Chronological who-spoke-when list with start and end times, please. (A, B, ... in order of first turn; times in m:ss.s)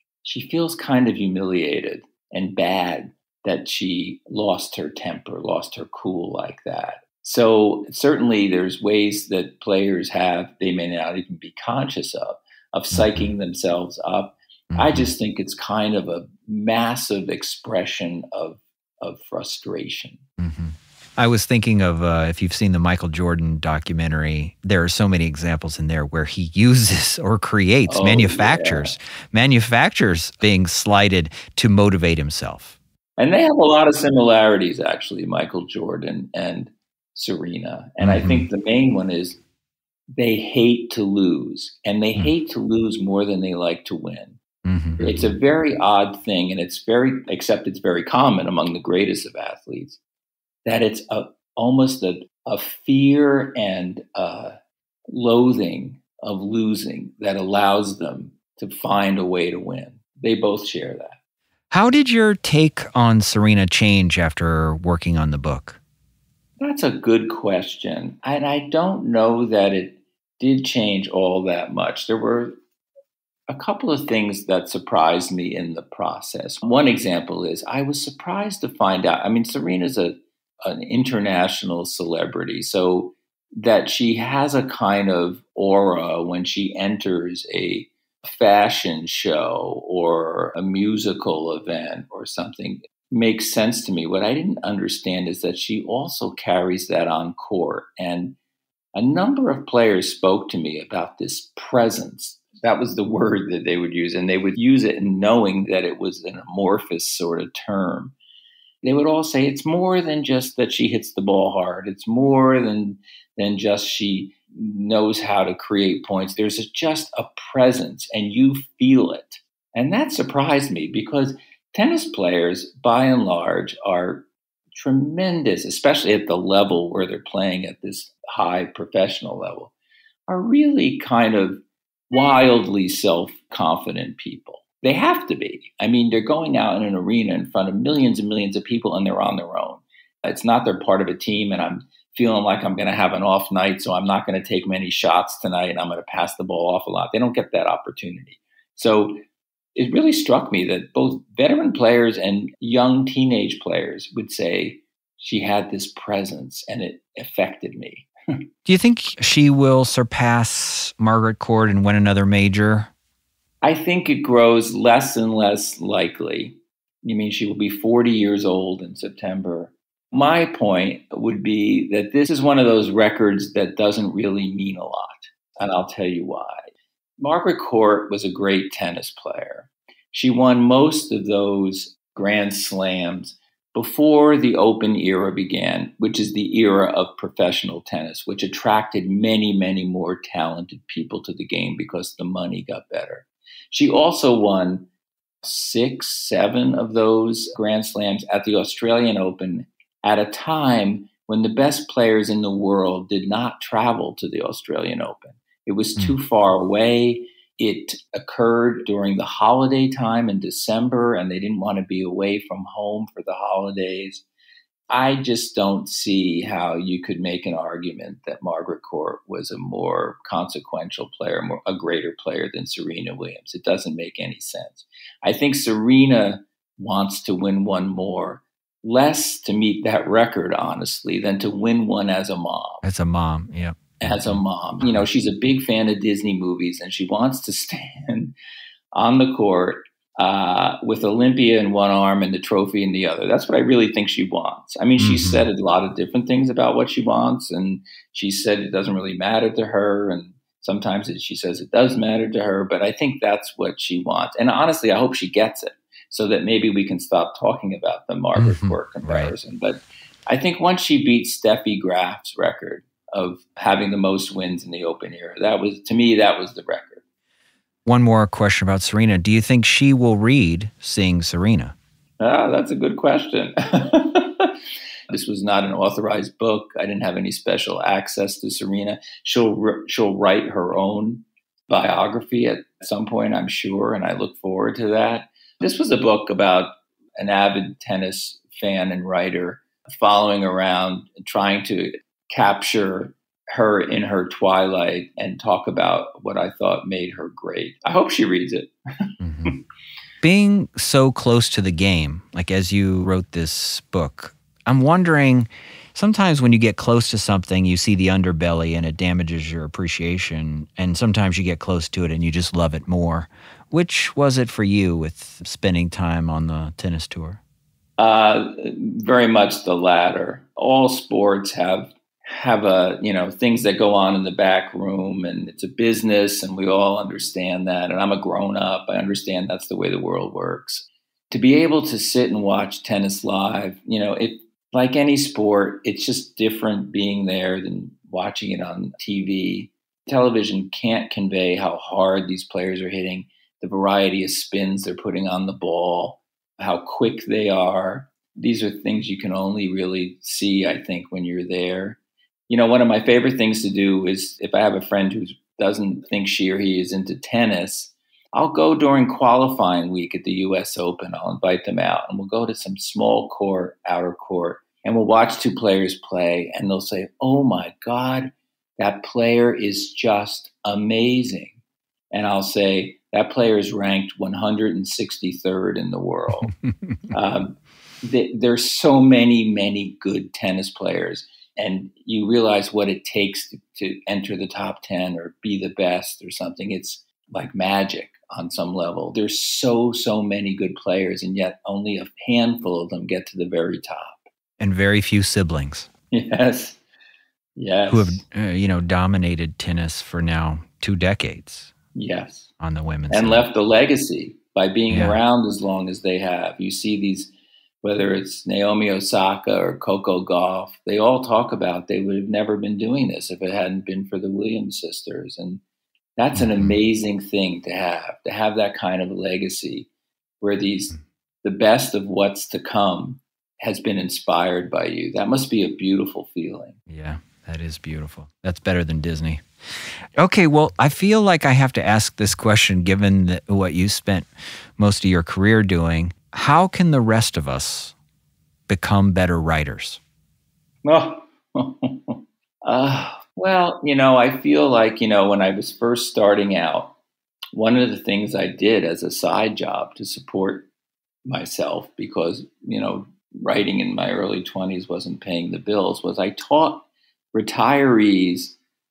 0:00.2-0:20.2 A
0:12.9-0:13.3 B
0:14.7-0:15.1 B
0:20.4-0:32.7 B
0:27.8-0:29.0 A
0:33.2-0:39.4 A
0:38.0-0:38.5 B
0:40.2-0:44.4 A
0:44.6-0:45.3 B
0:45.0-0:50.0 A
0:50.6-0:54.5 A
0:55.1-1:01.2 A
1:01.7-1:05.8 B
1:06.6-1:12.5 A
1:13.5-1:38.4 A
1:38.9-1:48.1 A
1:48.8-2:09.7 A
2:10.3-2:29.2 A
2:29.8-2:38.1 A
2:38.6-2:42.9 B
2:43.6-3:14.9 A
3:15.4-3:34.2 A
3:34.9-3:52.8 A
3:52.8-3:54.4 B
3:54.0-3:58.3 A
3:58.9-4:27.0 A
4:05.0-4:05.4 B
4:18.4-4:19.3 B
4:27.8-4:31.7 B
4:32.2-4:34.5 A
4:35.1-4:59.6 A
4:59.2-4:59.6 B
5:00.2-5:17.4 B
5:18.0-6:11.6 A
6:12.1-6:16.5 A
6:16.5-6:17.1 B
6:17.1-6:34.2 A
6:34.6-6:35.9 B
6:36.1-6:36.8 A
6:37.6-6:38.2 A
6:37.9-6:41.7 B
6:41.9-6:42.5 A
6:42.6-6:43.5 B
6:43.1-6:47.3 A
6:44.9-6:45.2 B
6:47.8-6:55.6 A
6:56.2-6:59.9 A
6:56.4-6:56.7 B
7:00.4-7:06.8 A
7:06.9-7:17.9 B
7:18.7-7:20.0 B
7:20.8-7:26.9 A
7:27.5-7:30.7 A
7:31.2-7:38.6 A